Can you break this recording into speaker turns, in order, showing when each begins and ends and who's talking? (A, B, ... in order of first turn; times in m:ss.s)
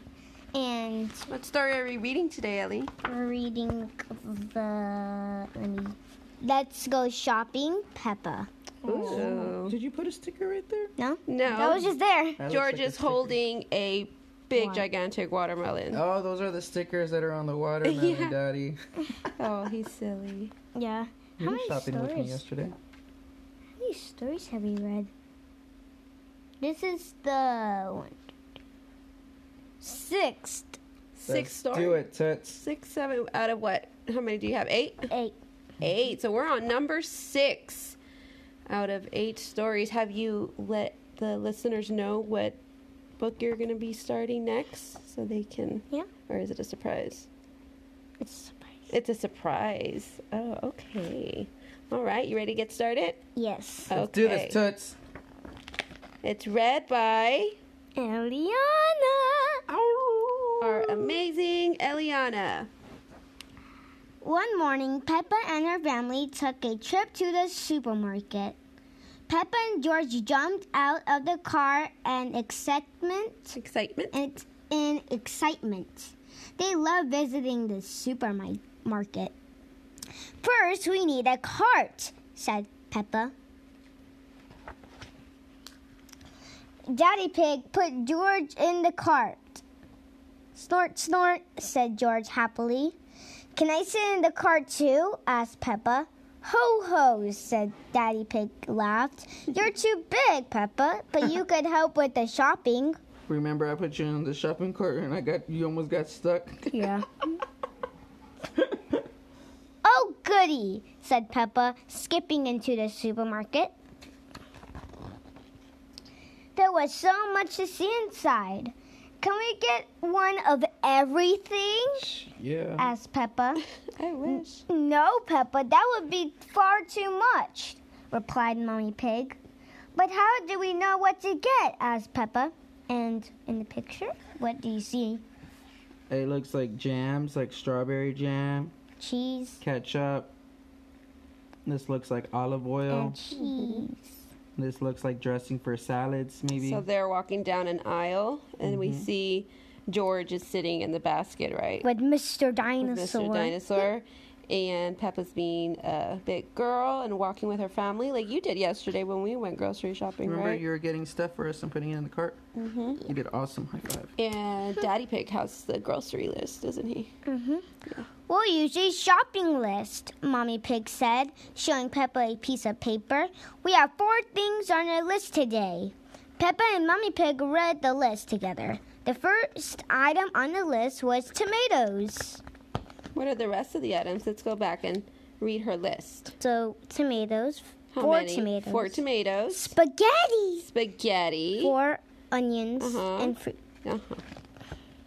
0:00.5-0:01.2 A
0:01.3-0:02.9 B
0:03.0-0:09.5 A
0:08.8-0:09.8 B
0:09.1-0:10.9 C
0:11.0-0:12.4 A
0:11.3-0:11.9 B
0:12.4-0:13.4 C
0:12.5-0:16.0 B
0:14.5-0:14.8 A
0:15.9-0:18.8 C
0:17.8-0:18.4 B
0:19.4-0:20.5 B
0:20.8-0:22.4 A
0:21.4-0:22.8 C
0:23.8-0:25.1 A
0:26.6-0:28.2 A
0:29.8-0:30.8 A
0:31.2-0:32.0 B
0:31.3-0:32.6 C
0:32.6-0:35.1 B
0:35.1-0:35.4 A
0:35.8-0:38.0 B
0:38.7-0:42.6 B
0:43.2-0:47.3 B
0:48.2-0:48.9 A
0:48.9-0:53.2 B
0:53.4-0:54.0 A
0:53.9-0:54.6 B
0:53.9-0:55.0 C
0:56.2-0:57.6 B
0:58.0-0:59.6 A
0:59.7-1:01.2 C
1:00.6-1:02.7 B
1:04.2-1:08.6 A
1:09.3-1:13.6 A
1:13.5-1:14.1 B
1:14.1-1:19.3 A
1:20.4-1:23.3 A
1:26.9-1:29.6 A
1:30.6-1:33.0 A
1:33.6-1:43.0 A
1:43.3-1:47.0 C
1:46.7-1:47.4 A
1:49.8-1:53.7 A
1:56.6-2:02.1 A
2:02.0-2:02.9 C
2:02.8-2:03.6 A
2:04.0-2:04.6 B
2:04.3-2:09.4 A
2:09.9-2:15.2 A
2:16.1-2:18.7 C
2:19.0-2:19.6 A
2:19.6-2:20.3 C
2:21.7-2:23.2 C
2:22.9-2:24.2 A
2:23.3-2:23.9 B
2:24.6-2:26.8 C
2:26.5-2:31.8 B
2:28.6-2:29.1 C
2:31.8-2:33.9 A
2:32.8-2:40.6 B
2:40.2-2:42.4 C
2:42.6-2:43.0 B
2:43.0-2:44.1 C
2:44.2-2:47.1 B
2:47.2-2:47.6 A
2:48.3-3:02.4 A
3:03.2-3:06.3 B
3:06.4-3:10.7 A
3:07.9-3:09.8 B
3:10.6-3:11.8 B
3:11.6-3:13.6 A
3:12.8-3:14.2 B